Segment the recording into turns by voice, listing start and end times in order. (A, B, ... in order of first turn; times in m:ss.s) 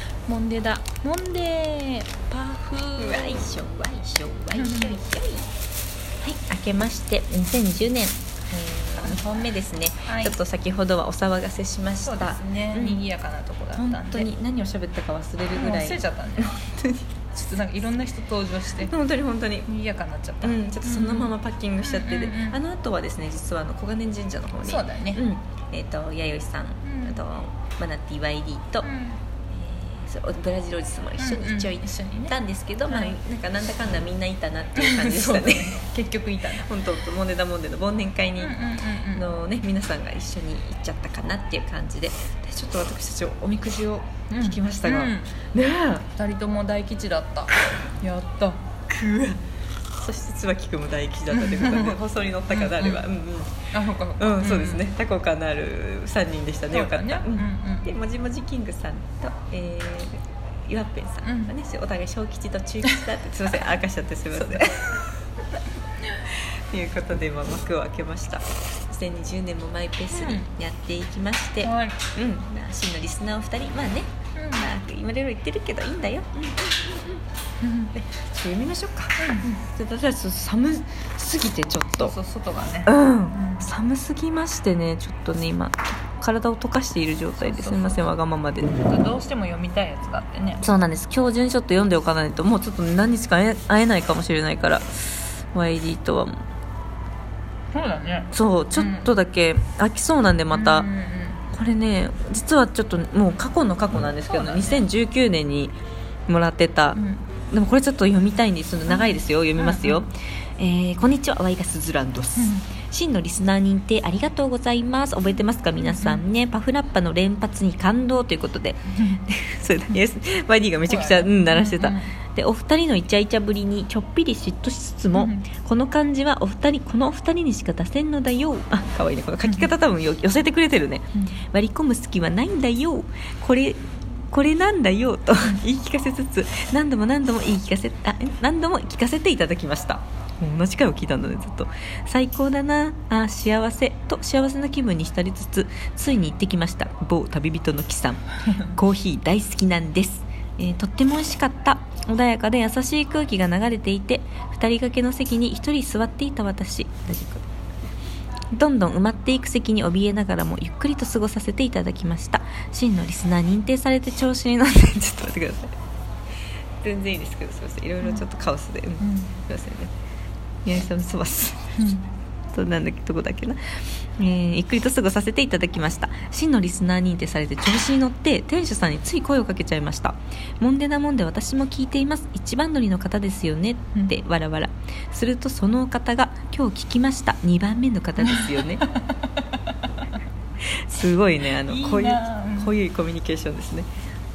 0:00.3-0:03.4 A
0:03.0-0:05.5 B
0:04.5-0:05.0 A
0:06.2-0:13.0 B
0:10.1-0:10.4 A
0:12.0-0:14.3 A
0:13.8-0:17.1 B
0:15.6-0:16.6 A
0:17.3-0:19.0 A
0:18.8-0:19.7 B
0:19.7-0:22.6 A
0:20.4-0:28.9 B
0:24.6-0:25.2 A
0:26.8-0:27.2 A
0:28.8-0:29.2 A
0:29.5-0:35.8 B
0:31.2-0:32.4 A
0:32.9-0:33.2 A
0:34.8-0:36.7 A
0:36.5-0:46.1 B
0:38.4-0:39.3 A
0:44.3-0:45.3 A
0:46.2-0:48.6 A
0:48.9-0:49.4 B
0:50.0-0:53.7 B
0:51.3-0:53.0 A
0:53.7-0:54.8 A
0:54.2-1:05.0 B
0:56.7-0:58.0 A
1:01.2-1:01.5 A
1:04.6-1:04.9 A
1:06.3-1:17.2 B
1:10.1-1:10.5 A
1:11.6-1:12.0 A
1:14.4-1:14.7 A
1:17.6-1:17.9 A
1:17.9-1:22.2 B
1:19.2-1:19.5 A
1:22.0-1:23.7 A
1:22.8-1:28.8 B
1:27.4-1:28.1 A
1:28.8-1:30.7 A
1:30.6-1:36.4 B
1:37.7-1:39.1 A
1:38.3-1:40.9 B
1:40.5-1:41.4 A
1:41.5-1:45.7 B
1:44.3-1:44.8 A
1:46.3-2:37.5 B
1:46.9-1:47.3 A
1:48.9-1:50.0 A
1:52.4-1:52.7 A
1:55.8-1:56.2 A
1:59.0-1:59.2 A
2:00.9-2:02.2 A
2:05.2-2:05.5 A
2:38.5-2:45.8 B
2:46.8-2:49.9 B
2:49.0-2:49.3 A
2:50.6-2:51.6 B
2:51.8-2:52.1 A
2:52.5-2:53.6 B
2:54.2-3:08.9 B
3:08.2-3:09.8 A
3:10.7-3:13.9 B
3:11.6-3:12.8 A